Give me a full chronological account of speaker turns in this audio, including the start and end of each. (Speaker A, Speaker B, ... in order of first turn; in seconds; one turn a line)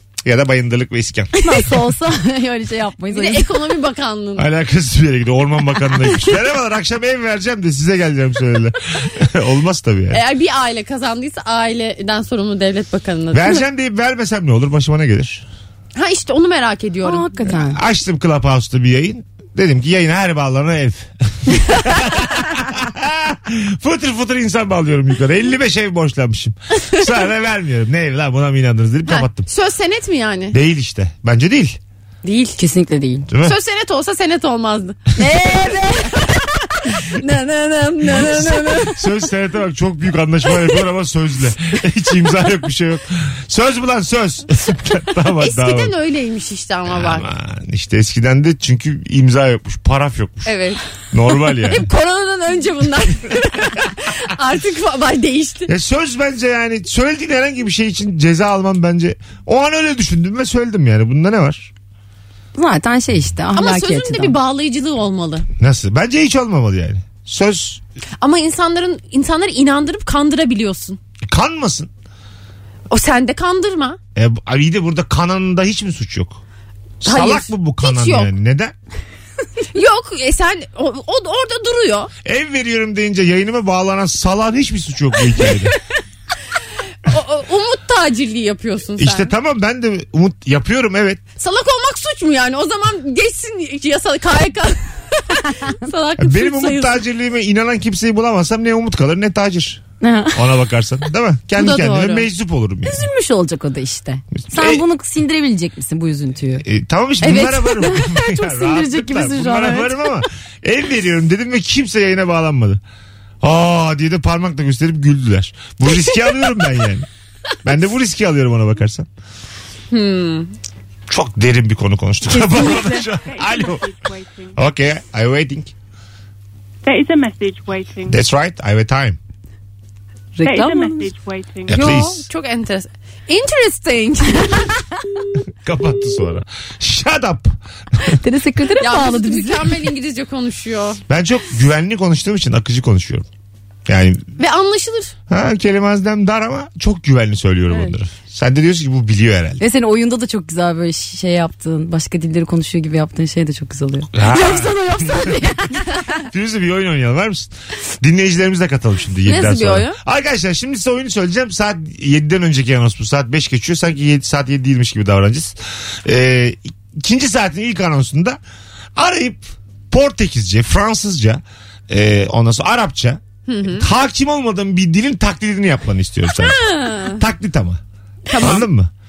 Speaker A: 0.2-1.3
Speaker B: 1.4-3.6
Speaker C: 3.1-4.5
Speaker A: 4.4-10.2
Speaker C: 10.1-13.6
Speaker A: 13.3-15.5
Speaker C: 15.9-17.3
Speaker B: 17.0-17.8
Speaker A: 17.4-29.5
Speaker C: 29.1-30.6
Speaker A: 30.5-31.8
Speaker C: 32.2-32.6
Speaker B: 32.6-33.3
Speaker A: 33.3-33.6
Speaker C: 33.4-35.6
Speaker B: 35.2-36.4
Speaker C: 37.0-39.1
Speaker B: 38.1-38.8
Speaker A: 38.7-46.0
Speaker C: 45.4-47.3
Speaker A: 46.9-50.6
Speaker C: 50.5-50.8
Speaker A: 51.1-51.9
Speaker C: 51.4-55.7
Speaker A: 55.7-61.7
Speaker B: 62.5-64.4
Speaker C: 63.5-65.5
Speaker A: 65.6-67.8
Speaker C: 68.2-71.0
Speaker A: 71.2-71.9
Speaker C: 72.9-74.0
Speaker A: 74.2-76.4
Speaker A: 77.0-78.7
Speaker C: 77.0-78.3
Speaker C: 79.7-82.1
Speaker A: 82.2-85.8
Speaker C: 87.0-89.3
Speaker A: 89.0-91.2
Speaker C: 91.4-97.0
Speaker A: 96.2-99.8
Speaker B: 100.0-100.4
Speaker A: 100.3-103.1
Speaker C: 101.6-102.3
Speaker B: 102.9-106.6
Speaker A: 104.4-104.8
Speaker A: 106.6-112.8
Speaker C: 107.2-107.5
Speaker B: 107.2-110.2
Speaker A: 113.4-117.1
Speaker A: 117.6-119.1
Speaker C: 119.9-120.5
Speaker A: 121.1-123.9
Speaker D: 122.6-124.6
Speaker A: 124.5-125.7
Speaker D: 126.8-128.2
Speaker A: 128.1-129.2
Speaker B: 130.3-131.1
Speaker D: 130.4-131.9
Speaker A: 131.7-132.3
Speaker C: 131.7-134.9
Speaker A: 135.6-138.2
Speaker B: 138.2-139.8
Speaker C: 138.8-141.0
Speaker A: 141.1-143.3
Speaker A: 143.9-144.3
Speaker C: 144.4-145.2
Speaker A: 145.3-149.6
Speaker B: 149.6-156.2
Speaker A: 154.1-155.4
Speaker A: 156.3-168.4
Speaker C: 159.2-160.0
Speaker A: 169.0-177.8
Speaker C: 173.5-173.9
Speaker C: 176.3-177.2
Speaker C: 178.3-178.7
Speaker A: 178.3-178.9